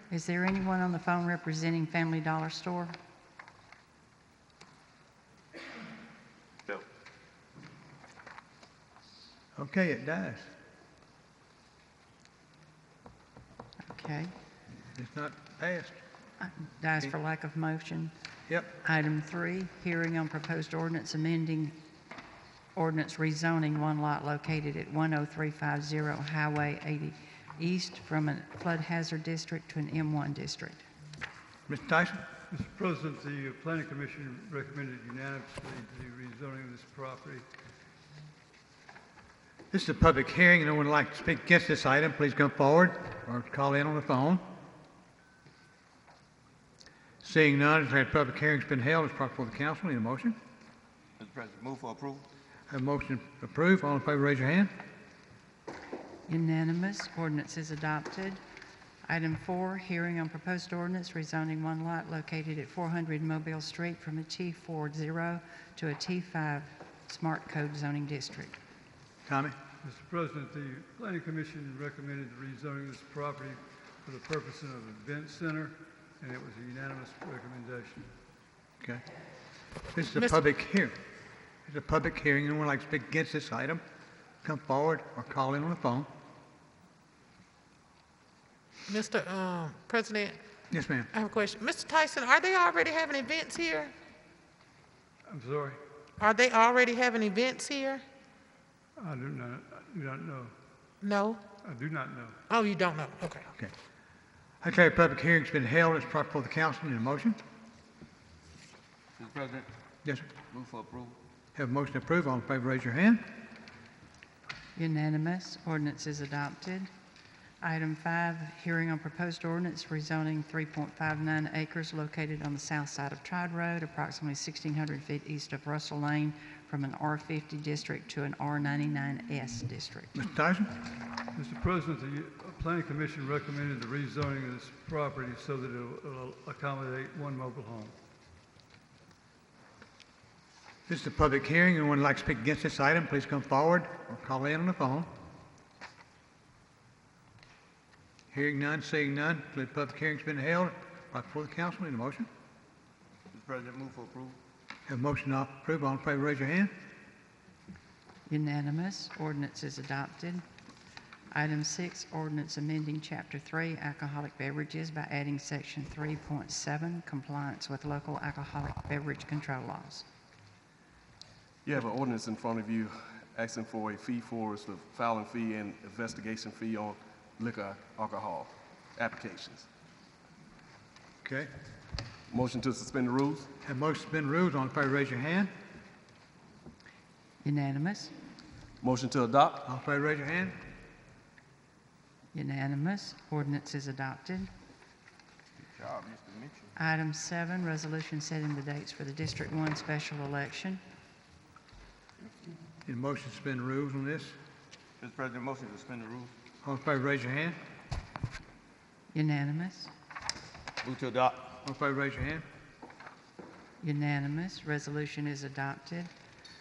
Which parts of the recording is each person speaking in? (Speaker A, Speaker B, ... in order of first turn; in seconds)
Speaker A: 0.1-2.9, 13.9-14.3, 16.4-18.1, 18.8-21.8, 22.7-30.8, 56.3-58.4, 59.1-68.5, 114.8-116.9, 117.6-130.1, 158.3-160.4, 161.3-170.1, 187.4-188.1, 192.3-194.5, 196.8-200.8, 209.1-209.9, 213.8-216.1
Speaker B: 9.6-10.5, 14.9-16.0, 31.7-32.2, 39.7-44.4, 47.2-50.3, 52.7-54.7, 69.2-69.5, 79.9-81.0, 81.7-83.8, 84.4-86.1, 90.7-91.1, 104.6-107.4, 110.0-110.3, 111.5-113.2, 130.2-130.7, 140.9-145.1, 148.3-152.3, 154.9-156.7, 181.2-181.5, 183.6-185.5, 189.6-190.6, 202.8-204.3, 206.6-207.6, 211.6-212.4
Speaker C: 32.5-37.4, 69.8-78.1, 95.3-95.8, 99.0-100.5, 101.6-102.3, 131.3-137.9
Speaker D: 51.2-52.3, 109.2-109.7, 110.4-111.2, 153.3-154.4, 195.7-196.7, 205.0-206.3, 210.8-211.6
Speaker E: 88.9-90.4, 91.1-93.9, 96.2-98.0, 101.0-101.4, 102.5-103.4
Speaker F: 171.6-179.7, 182.3-183.5, 188.8-189.6